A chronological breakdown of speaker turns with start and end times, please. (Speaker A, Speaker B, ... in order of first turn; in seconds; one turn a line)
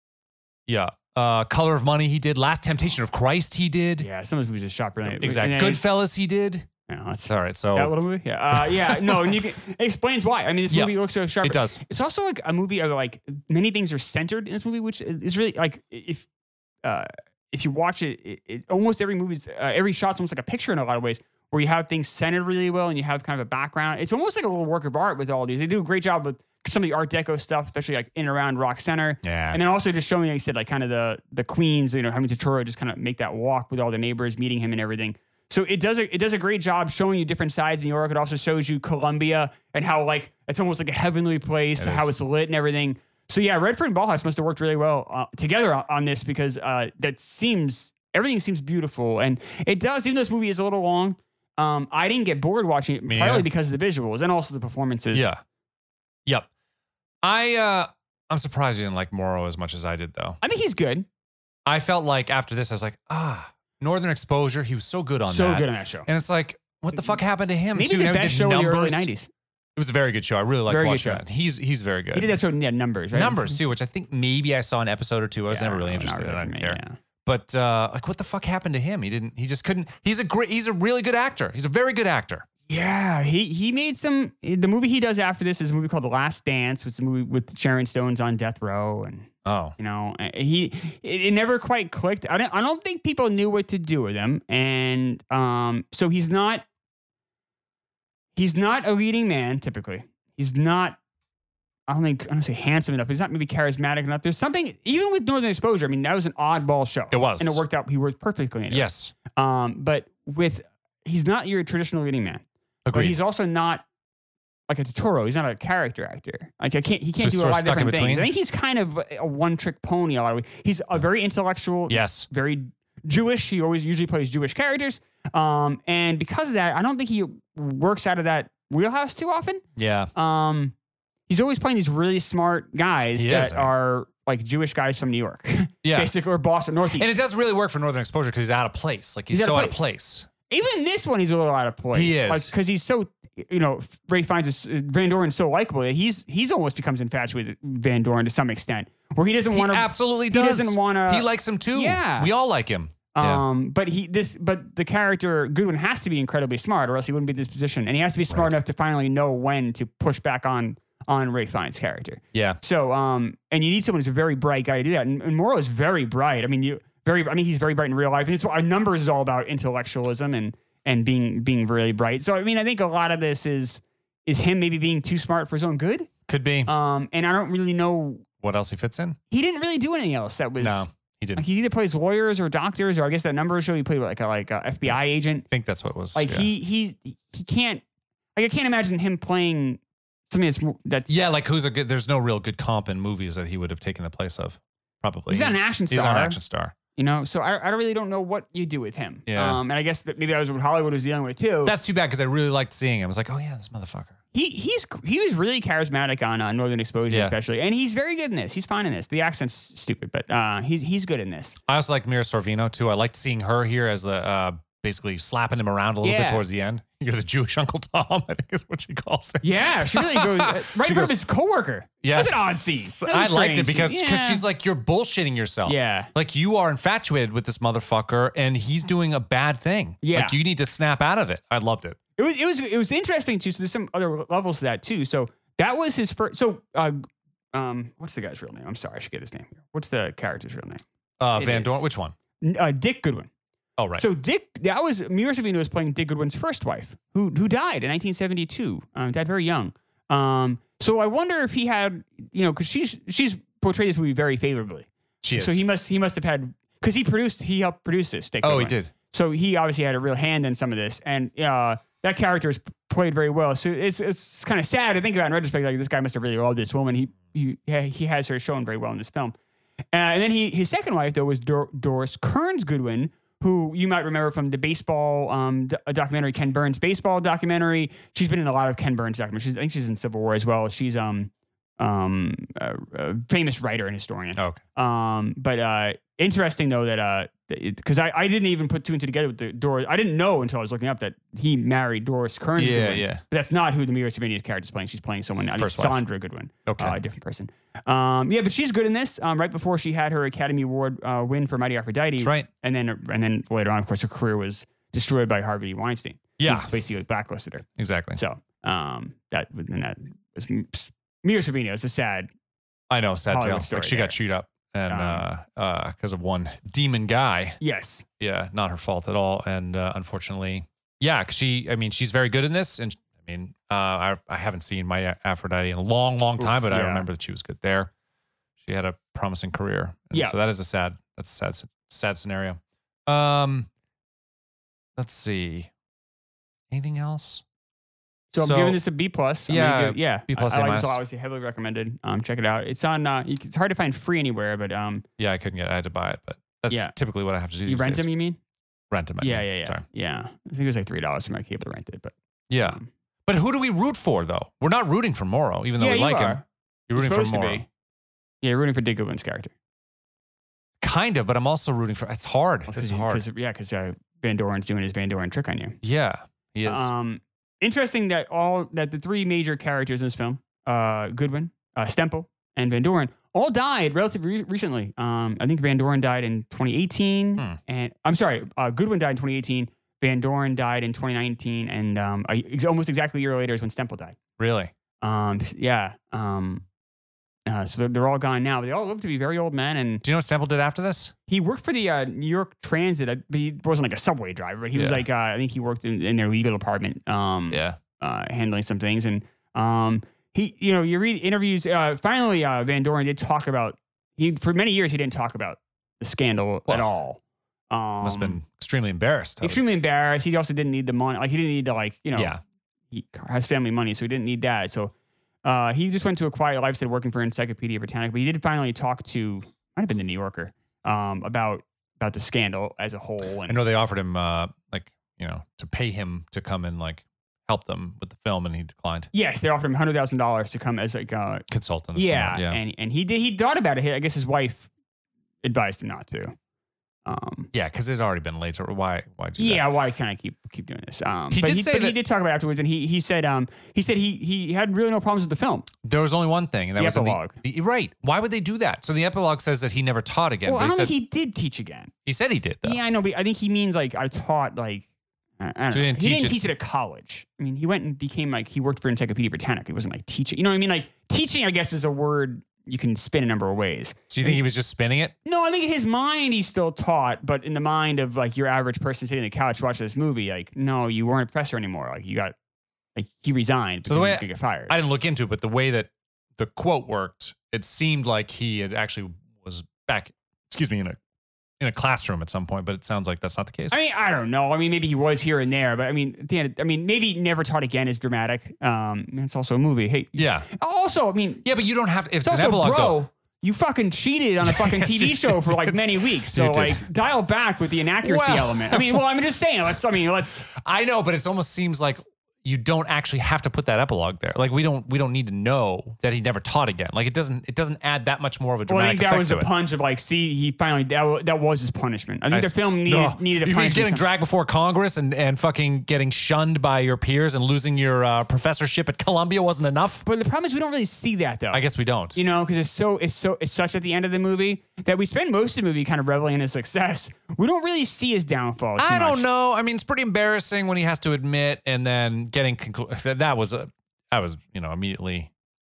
Speaker A: 0.7-4.1
Speaker B: 4.0-5.8
Speaker A: 5.0-6.7
Speaker B: 6.9-16.3
Speaker A: 7.3-8.0
Speaker A: 8.5-9.3
Speaker A: 10.7-11.8
Speaker B: 16.8-55.3
Speaker A: 29.2-29.6
Speaker A: 41.8-42.1
Speaker A: 53.1-53.5
Speaker A: 55.1-55.4
Speaker A: 57.2-60.4
Speaker B: 60.4-61.1
Speaker A: 61.7-69.1
Speaker B: 65.2-66.1
Speaker B: 67.7-69.3
Speaker A: 69.8-72.3
Speaker B: 70.7-71.2
Speaker B: 72.1-73.6
Speaker A: 73.1-82.5
Speaker B: 75.5-77.0
Speaker B: 82.7-96.7
Speaker A: 89.5-89.8
Speaker B: 98.4-101.0
Speaker B: 101.9-113.8
Speaker A: 107.1-107.6
Speaker A: 108.7-109.2
Speaker A: 112.8-113.2
Speaker B: 114.7-129.6
Speaker A: 117.2-118.3
Speaker A: 121.9-122.3
Speaker A: 129.8-130.1
Speaker B: 130.2-130.7
Speaker B: 131.3-137.1
Speaker A: 133.2-133.7
Speaker A: 135.8-136.1
Speaker A: 136.9-140.3
Speaker B: 139.3-139.8
Speaker B: 140.5-152.3
Speaker A: 141.9-142.5
Speaker A: 149.5-153.4
Speaker B: 153.1-176.1
Speaker A: 162.3-162.6
Speaker A: 176.3-176.7
Speaker B: 176.7-178.3
Speaker A: 178.4-179.2
Speaker B: 179.3-185.5
Speaker A: 180.6-181.4
Speaker A: 185.5-186.5
Speaker B: 186.2-187.8
Speaker B: 188.4-191.3
Speaker A: 191.1-196.8
Speaker B: 195.3-196.4
Speaker B: 196.9-201.7
Speaker A: 199.3-199.6
Speaker A: 201.6-204.2
Speaker B: 204.3-211.6
Speaker A: 207.1-207.3
Speaker A: 211.7-221.2
Speaker B: 216.0-216.4
Speaker B: 219.4-224.4
Speaker A: 222.0-232.0
Speaker B: 225.7-226.1
Speaker B: 230.0-230.4
Speaker B: 232.2-240.8
Speaker A: 241.2-242.1
Speaker B: 241.4-241.8
Speaker B: 242.4-243.3
Speaker A: 243.8-244.1
Speaker B: 244.0-269.4
Speaker A: 255.2-255.6
Speaker A: 258.4-258.9
Speaker B: 269.9-312.3
Speaker A: 284.4-284.6
Speaker A: 292.6-293.2
Speaker A: 295.6-296.0
Speaker A: 296.7-297.0
Speaker A: 302.2-302.5
Speaker A: 306.4-306.7
Speaker A: 307.8-308.2
Speaker A: 312.9-317.6
Speaker B: 313.3-314.2
Speaker B: 314.9-315.2
Speaker B: 317.6-318.1
Speaker A: 318.2-327.9
Speaker B: 326.4-327.1
Speaker A: 328.6-333.7
Speaker A: 335.0-335.7
Speaker A: 336.7-337.4
Speaker B: 338.3-345.1
Speaker A: 338.4-338.8
Speaker A: 339.5-341.0
Speaker A: 345.2-348.1
Speaker B: 347.7-348.4
Speaker A: 348.9-349.8
Speaker B: 349.2-352.1
Speaker A: 352.5-357.6
Speaker B: 355.8-357.7
Speaker B: 358.4-359.5
Speaker A: 360.8-363.2
Speaker B: 362.7-365.8
Speaker A: 365.8-366.9
Speaker B: 366.6-384.2
Speaker A: 384.4-384.7
Speaker B: 385.0-386.6
Speaker B: 387.5-390.0
Speaker A: 390.0-391.1
Speaker B: 391.3-408.4
Speaker A: 394.7-395.1
Speaker A: 397.5-397.8
Speaker A: 408.0-409.6
Speaker B: 409.4-412.3
Speaker A: 412.1-412.4
Speaker B: 412.9-414.9
Speaker B: 415.4-423.6
Speaker A: 423.5-429.1
Speaker B: 429.1-434.7
Speaker A: 431.5-432.6
Speaker B: 435.4-436.4
Speaker B: 437.1-437.5
Speaker A: 437.5-439.7
Speaker B: 439.4-445.7
Speaker A: 441.3-442.0
Speaker A: 445.8-450.9
Speaker B: 446.8-447.4
Speaker B: 450.4-451.9
Speaker A: 452.1-452.8
Speaker B: 452.6-454.9
Speaker B: 455.4-464.4
Speaker A: 455.7-456.4
Speaker A: 464.1-465.1
Speaker B: 465.2-472.4
Speaker B: 472.9-474.7
Speaker A: 473.9-481.0
Speaker A: 481.6-483.8
Speaker B: 483.7-491.5
Speaker A: 490.2-490.5
Speaker A: 491.4-493.0
Speaker B: 492.2-500.5
Speaker A: 494.4-496.9
Speaker A: 498.0-499.0
Speaker A: 500.5-509.5
Speaker B: 508.7-514.0
Speaker A: 512.3-520.0
Speaker B: 520.0-529.3
Speaker A: 521.5-522.2
Speaker A: 528.8-535.3